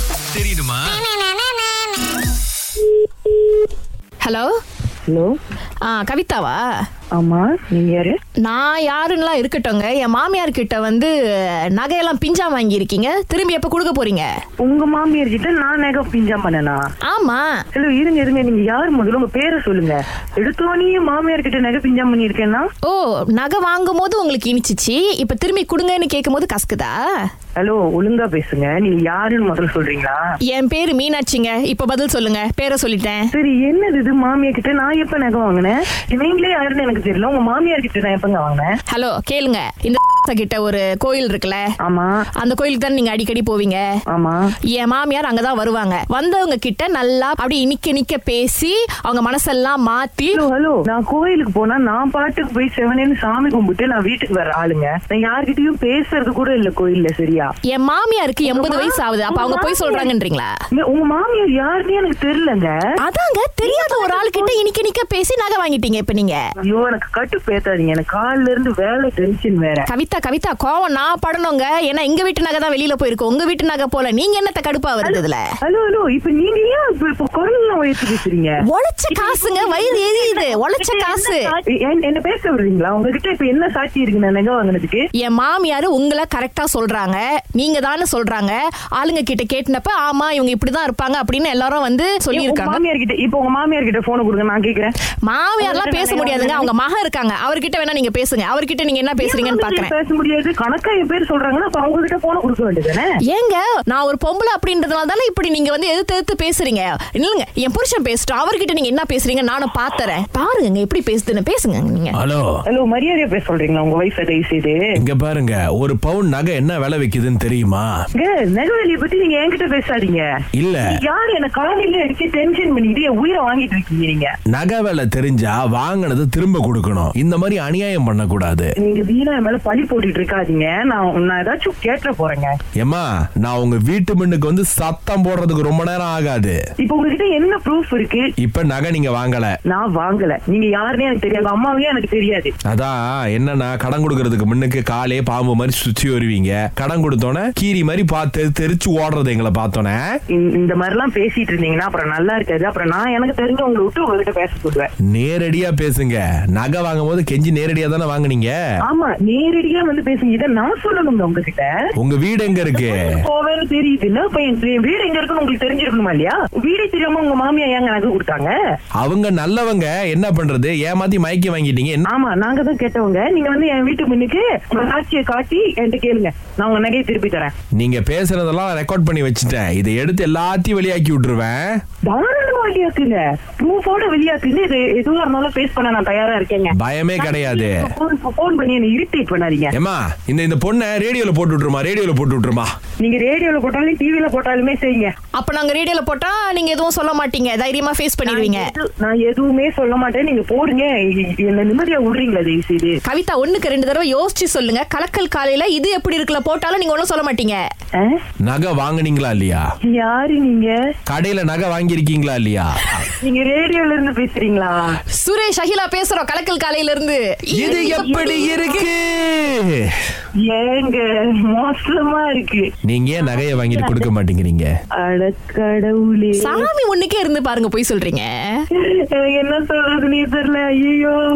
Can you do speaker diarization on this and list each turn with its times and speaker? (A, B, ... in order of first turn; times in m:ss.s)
0:00.2-0:01.0 A
0:04.2-0:04.5 B
0:05.1-0:05.4 C
0:05.8-0:06.6 B
0:07.1-0:08.2 C
0:08.4-0:14.3 B
0:14.6-0:16.9 C
0:17.0-0:17.5 B
0:17.7-0:22.7 C
0:22.8-0:27.0 B
0:27.6-0:30.2 C
0:30.5-0:33.3 B
0:33.3-0:38.7 C
0:38.9-0:41.6 B
0:41.8-0:42.2 C
0:42.4-0:43.8 B
0:44.1-0:44.4 C
0:44.7-0:50.4 B
0:50.3-0:57.5 C
0:57.7-1:00.5 B
0:58.5-1:00.1 C
1:00.7-1:02.7 C
1:03.0-1:06.4 B
1:03.6-1:04.6 C
1:06.6-1:09.9 C
1:09.9-1:15.4 B
1:15.0-1:18.5 C
1:18.7-1:21.5 B
1:19.1-1:25.0 C
1:25.2-1:32.8 B
1:32.3-1:34.9 C
1:35.2-1:39.9 B
1:35.6-1:36.7 C
1:39.2-1:43.1 C
1:43.3-1:52.2 B
1:52.2-1:52.5 A
1:52.7-1:54.8 C
1:54.9-1:57.9 A
1:58.2-2:00.2 C
2:00.6-2:01.0 A
2:00.8-2:04.3 C
2:04.5-2:08.7 A
2:08.8-2:12.6 C
2:12.8-2:16.6 A
2:16.8-2:18.3 C
2:18.4-2:19.6 A
2:19.7-2:22.5 C
2:22.7-2:30.0 A
2:30.3-2:34.9 C
2:35.1-2:38.6 A
2:38.9-2:41.8 C
2:42.0-2:43.1 A
2:42.7-2:48.5 C
2:49.0-2:52.0 A
2:52.1-2:57.5 C
2:57.7-3:01.8 A
3:02.0-3:09.7 C
3:06.7-3:07.9 A
3:09.7-3:12.7 A
3:13.0-3:15.1 C
3:15.3-3:18.7 B
3:18.3-3:23.0 C
3:23.0-3:27.6 B
3:28.4-3:29.6 A
3:29.9-3:30.7 C
3:31.1-3:33.0 A
3:33.2-3:35.0 C
3:35.2-3:38.2 B
3:37.5-3:40.0 A
3:37.6-3:38.6 C
3:40.4-3:42.7 C
3:42.8-3:44.7 A
3:43.3-3:44.1 C
3:45.0-3:46.7 C
3:46.4-3:48.6 B
3:48.7-3:51.2 C